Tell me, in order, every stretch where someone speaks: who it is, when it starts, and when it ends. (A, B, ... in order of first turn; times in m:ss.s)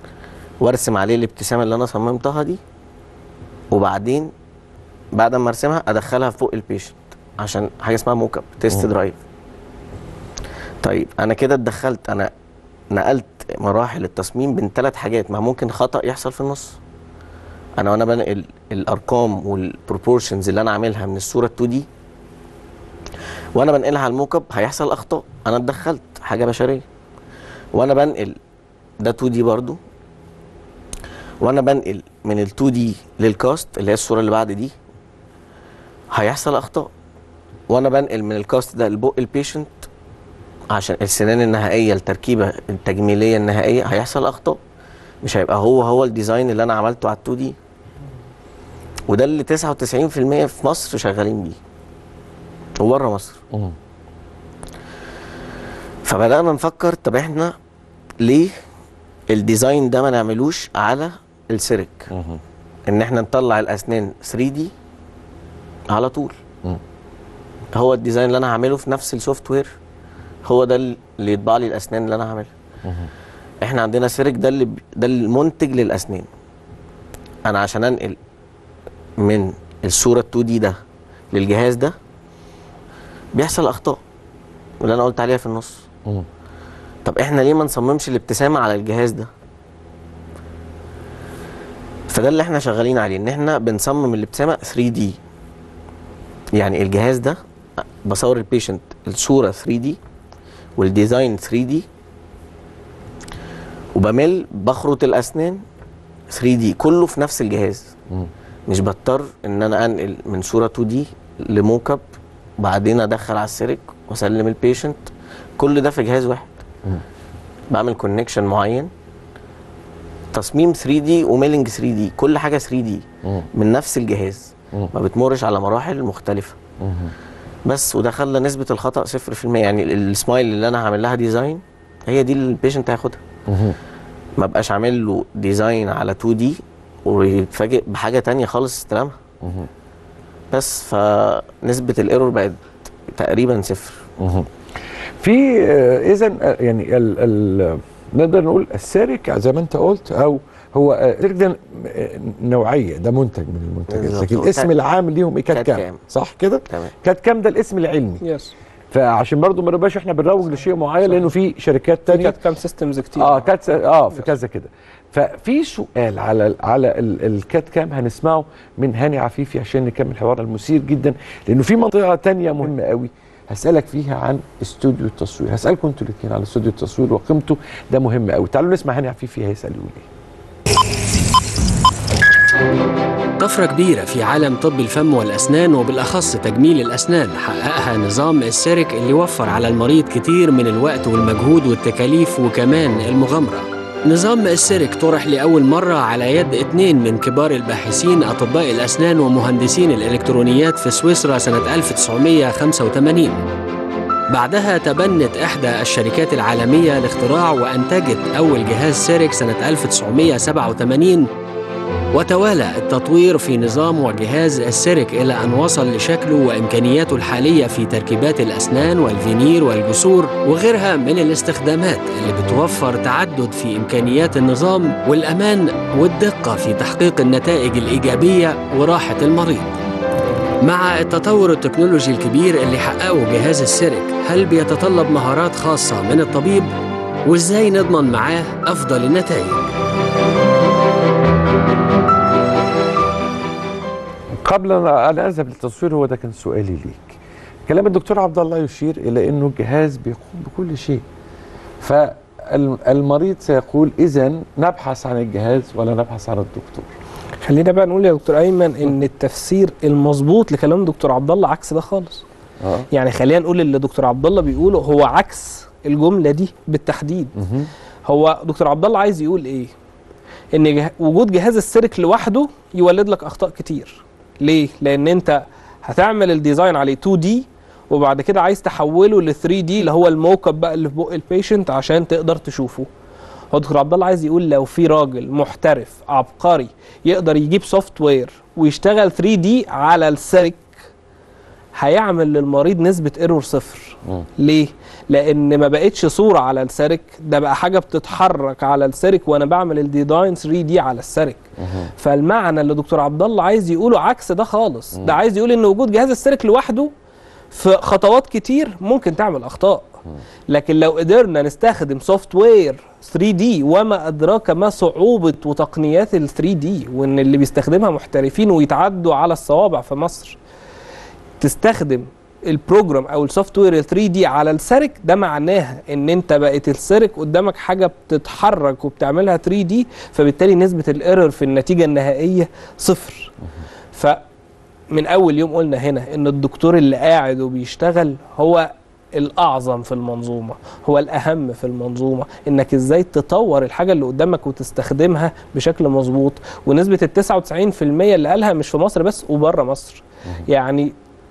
0:00.6-0:02.6 A
0:03.7-0:04.3 A
0:05.1-0:09.2 A
0:10.8-0:12.3 A
0:12.9-0:16.8 A
0:17.8-0:21.8 A
0:23.5-0:26.8 A
0:27.7-0:28.4 A
0:29.0-0:29.8 A
0:31.4-0:34.7 A
0:36.1-0:36.9 A
0:37.7-0:39.9 A
0:40.7-0:44.6 A
0:45.2-0:47.5 A
0:49.1-0:51.6 A
0:52.8-0:53.4 A
0:56.0-0:57.5 A
0:58.2-0:58.5 A
0:59.3-1:02.1 A
1:02.1-1:02.4 B
1:02.9-1:04.7 A
1:05.9-1:06.4 A
1:07.7-1:09.7 A
1:10.4-1:12.5 A
1:12.8-1:13.1 B
1:13.6-1:16.3 A
1:17.4-1:18.2 A
1:19.2-1:20.8 A
1:21.3-1:21.9 A
1:23.3-1:24.0 A
1:24.8-1:25.8 A
1:27.0-1:29.3 A
1:32.1-1:35.2 A
1:36.6-1:37.4 A
1:38.0-1:40.0 A
1:40.8-1:41.8 A
1:44.0-1:45.6 A
1:46.3-1:47.9 A
1:48.7-1:52.0 A
1:52.6-1:56.5 A
1:57.7-1:58.9 A
2:00.3-2:06.6 A
2:06.8-2:07.1 B
2:07.6-2:13.2 A
2:13.5-2:13.8 B
2:14.4-2:19.2 A
2:19.4-2:19.7 B
2:20.5-2:24.0 A
2:24.2-2:24.5 B
2:25.2-2:38.2 B
2:33.9-2:34.7 A
2:35.5-2:36.0 A
2:38.2-2:38.5 C
2:38.9-2:42.4 B
2:42.1-2:44.2 C
2:43.1-3:00.0 B
3:03.4-3:23.4 D
3:24.3-3:31.3 D
3:32.1-3:49.7 D
3:50.6-3:56.7 D
3:57.2-3:59.6 D
4:04.4-4:11.0 B
4:11.8-4:16.9 B
4:17.4-4:22.2 C
4:22.6-4:22.8 B
4:22.9-4:27.3 C
4:27.4-4:27.7 B
4:28.0-4:29.7 C
4:30.5-4:42.9 C
4:43.5-4:50.7 C
4:51.7-5:01.4 C
5:01.6-5:01.9 B
5:02.0-5:06.9 C
5:07.5-5:09.9 C
5:10.5-5:20.4 C
5:21.4-5:33.3 C
5:33.9-5:34.2 C
5:34.9-5:50.9 C